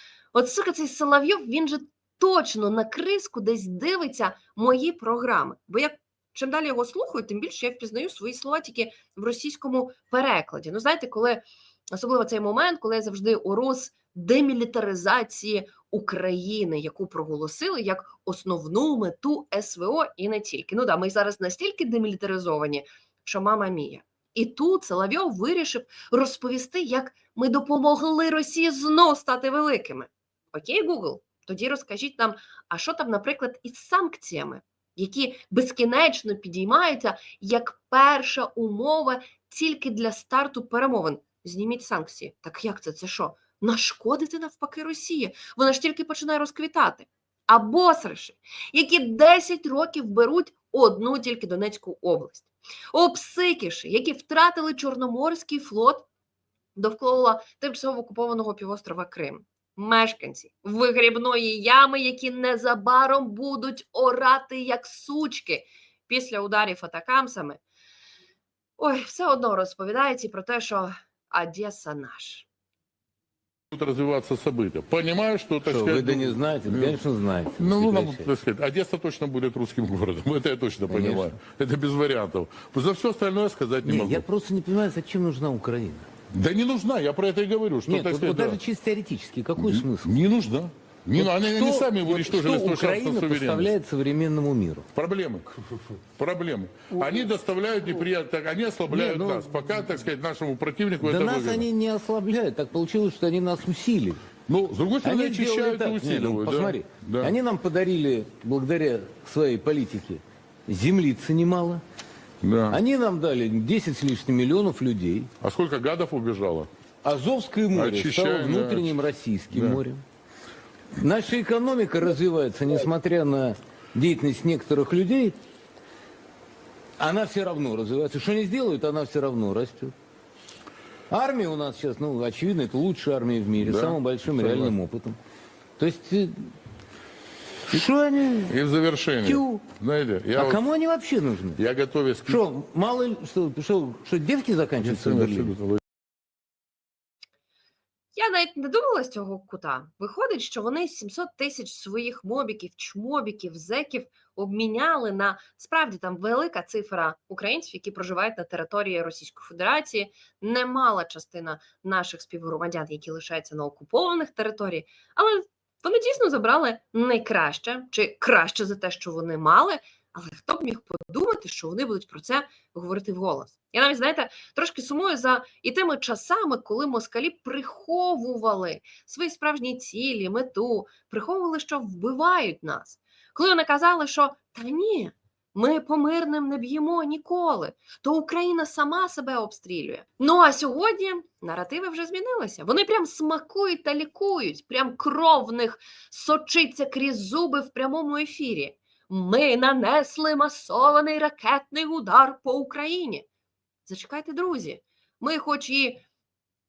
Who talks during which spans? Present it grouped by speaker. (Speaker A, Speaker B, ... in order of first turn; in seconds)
Speaker A: 0.3-56.1, 56.8-67.6, 68.8-72.5, 148.1-203.2, 203.8-206.0
Speaker B: 73.7-77.0, 77.6-84.2, 86.3-88.6, 89.6-93.7, 95.0-101.7, 104.5-107.3, 112.4-112.8, 115.4-116.7, 117.7-119.0, 119.5-119.8, 133.6-134.7, 138.5-140.6, 141.6-142.4, 144.8-145.8
Speaker C: 75.7-78.3, 80.9-81.3, 83.8-86.1, 87.9-90.1, 91.2-94.9, 98.9-100.0, 101.0-104.2, 105.0-111.8, 112.7-115.3, 117.0-120.0, 121.0-125.3, 127.0-129.9, 131.1-135.2, 135.8-136.5, 137.7-138.5, 139.2-139.6, 140.3-141.6, 142.3-145.5